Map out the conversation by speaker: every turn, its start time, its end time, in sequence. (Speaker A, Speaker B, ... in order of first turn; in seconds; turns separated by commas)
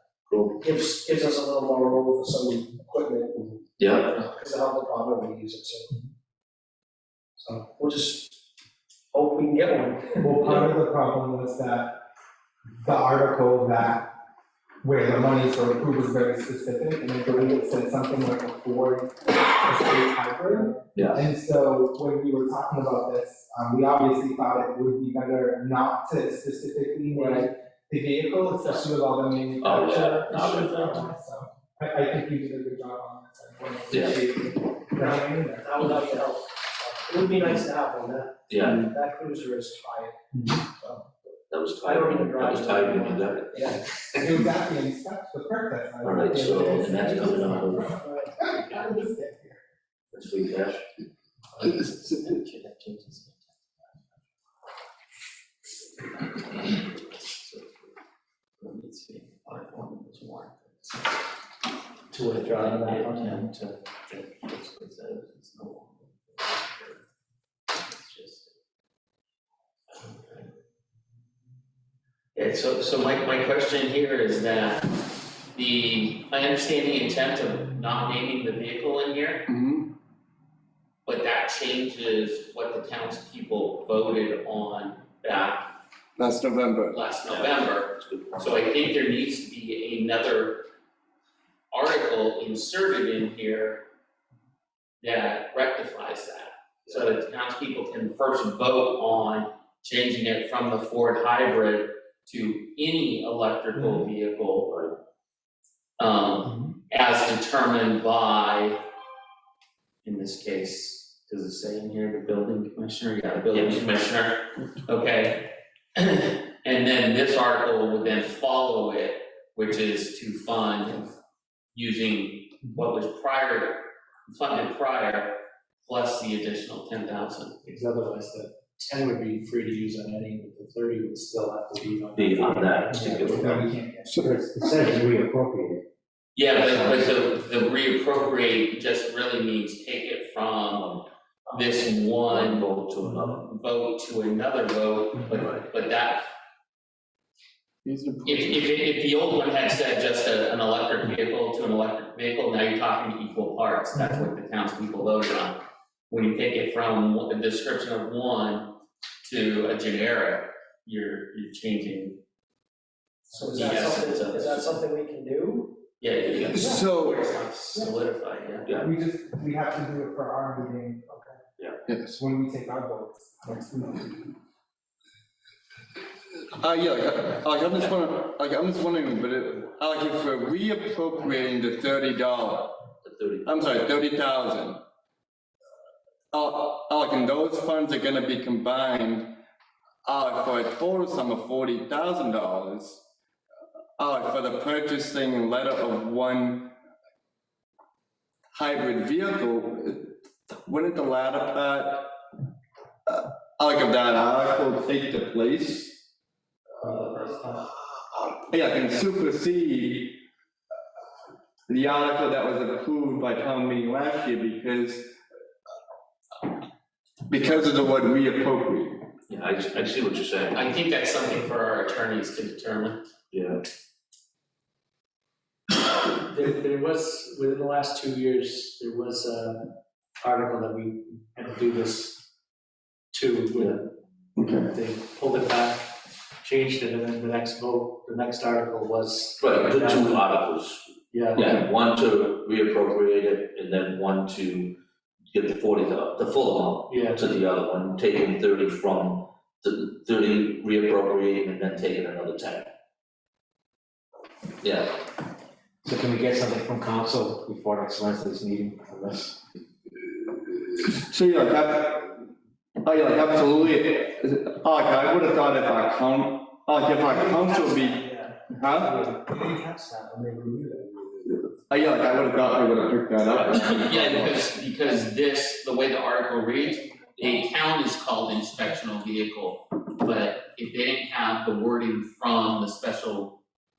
Speaker A: 0.3-0.6, Speaker B: 0.6-5.9, Speaker A: 3.8-4.2, Speaker B: 7.4-8.4, Speaker B: 9.1-10.4, Speaker C: 10.2-12.0, Speaker C: 12.8-14.1, Speaker C: 14.8-35.9, Speaker B: 17.3-17.6, Speaker A: 20.9-21.3, Speaker B: 27.1-27.4, Speaker A: 29.6-31.1, Speaker A: 33.9-34.2, Speaker B: 35.6-41.0, Speaker A: 38.5-38.9, Speaker C: 40.3-40.6, Speaker A: 41.5-44.3, Speaker B: 41.8-43.9, Speaker C: 44.1-49.6, Speaker A: 46.0-47.9, Speaker B: 46.5-48.5, Speaker A: 50.1-50.8, Speaker D: 51.5-53.5, Speaker D: 56.0-57.7, Speaker D: 58.6-61.1, Speaker E: 62.1-63.5, Speaker D: 62.2-67.0, Speaker D: 67.7-68.5, Speaker D: 69.9-70.5, Speaker D: 72.3-74.9, Speaker D: 75.5-79.5, Speaker F: 79.5-79.9, Speaker D: 81.1-85.7, Speaker F: 86.2-87.0, Speaker D: 86.9-90.7, Speaker A: 87.2-88.6, Speaker D: 91.7-93.9, Speaker D: 95.0-104.7, Speaker A: 96.9-97.2, Speaker C: 103.8-104.1, Speaker A: 104.7-104.9, Speaker D: 106.0-108.8, Speaker D: 110.0-121.2, Speaker A: 113.5-114.1, Speaker D: 121.7-127.6, Speaker E: 127.6-135.8, Speaker A: 132.2-133.7, Speaker C: 132.9-135.0, Speaker D: 136.3-142.7, Speaker A: 142.3-143.5, Speaker D: 143.5-146.3, Speaker A: 145.3-145.6, Speaker F: 147.8-148.7, Speaker D: 148.3-162.2, Speaker C: 153.9-154.3, Speaker B: 163.3-165.8, Speaker D: 163.5-164.8, Speaker D: 166.0-168.7, Speaker A: 166.3-166.7, Speaker F: 166.5-167.3, Speaker B: 166.6-166.8, Speaker A: 168.7-168.9, Speaker C: 168.8-171.1, Speaker B: 171.1-171.4, Speaker F: 171.9-172.2, Speaker C: 172.2-174.3, Speaker F: 176.6-182.8, Speaker A: 183.0-183.6, Speaker F: 183.4-184.8, Speaker F: 186.3-189.4, Speaker F: 190.1-193.1, Speaker F: 194.0-196.8, Speaker F: 198.5-202.1, Speaker F: 203.1-206.0, Speaker F: 208.5-210.2, Speaker F: 211.7-215.2, Speaker F: 217.3-219.0, Speaker A: 219.3-220.7, Speaker D: 220.5-223.0, Speaker A: 223.3-223.6, Speaker E: 226.0-229.7, Speaker E: 230.2-232.2, Speaker E: 233.1-233.8, Speaker F: 234.4-234.7, Speaker E: 234.7-240.2, Speaker A: 239.4-244.8, Speaker E: 241.1-241.6, Speaker A: 245.3-252.7, Speaker E: 246.9-247.3, Speaker A: 254.6-255.0, Speaker G: 255.8-259.3, Speaker F: 260.6-262.1, Speaker F: 262.8-269.1, Speaker B: 269.2-270.9, Speaker F: 271.3-274.2, Speaker A: 273.2-274.3, Speaker D: 273.5-283.4